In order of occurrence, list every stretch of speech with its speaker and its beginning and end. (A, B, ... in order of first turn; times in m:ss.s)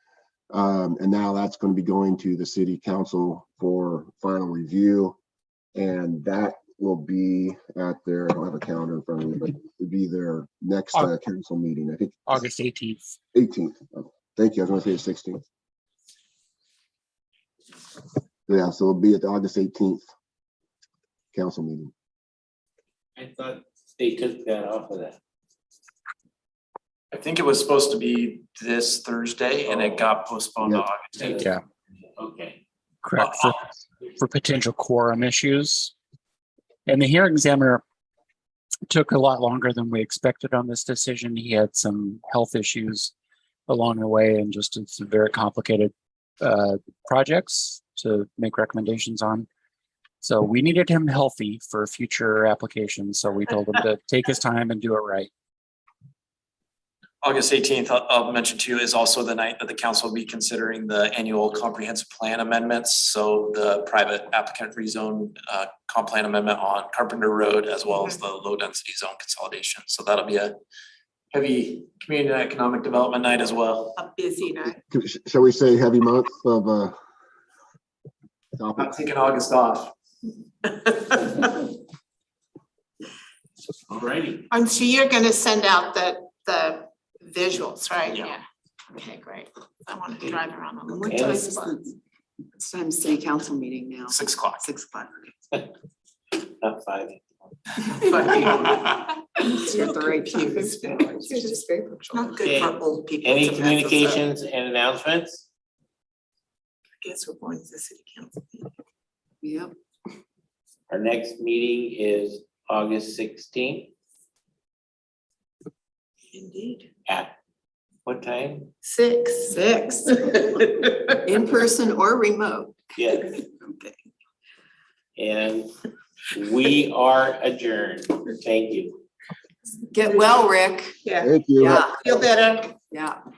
0:00.5-0:05.2 A
0:05.8-0:12.2 A
0:12.3-0:13.2 B
0:13.3-0:15.4 A
0:18.5-0:20.1 A
0:21.3-0:21.9 A
0:23.2-0:25.2 C
0:27.1-0:31.4 D
0:29.7-0:30.1 C
0:31.2-0:31.5 C
0:32.2-0:32.6 C
0:33.0-0:35.9 B
0:33.2-0:33.5 D
0:36.9-0:37.8 B
0:38.9-0:43.1 B
0:43.7-0:49.5 B
0:50.2-0:55.3 B
0:57.2-1:10.5 D
1:07.9-1:08.2 E
1:11.3-1:14.0 D
1:14.0-1:14.8 E
1:14.9-1:17.0 A
1:18.6-1:18.9 A
1:18.8-1:19.9 D
1:21.1-1:21.5 E
1:23.9-1:24.5 C
1:24.5-1:28.4 E
1:28.9-1:31.9 E
1:30.9-1:31.9 F
1:31.1-1:31.4 C
1:32.6-1:35.3 F
1:34.1-1:34.6 D
1:36.3-1:37.3 C
1:38.0-1:41.5 E
1:39.4-1:42.4 F
1:42.1-1:44.2 E
1:42.3-1:45.5 C
1:47.0-1:48.7 E
1:49.4-1:49.8 F
1:50.9-1:53.9 C
1:56.3-1:56.9 E
1:57.1-1:57.4 C
1:58.0-1:58.7 C
1:58.8-2:01.4 E
2:01.2-2:04.0 F
2:03.0-2:03.4 C
2:05.2-2:05.7 C
2:06.4-2:09.0 C
2:09.9-2:11.0 F
2:10.0-2:12.8 E
2:11.2-2:11.8 A
2:11.6-2:12.1 F
2:12.9-2:13.2 F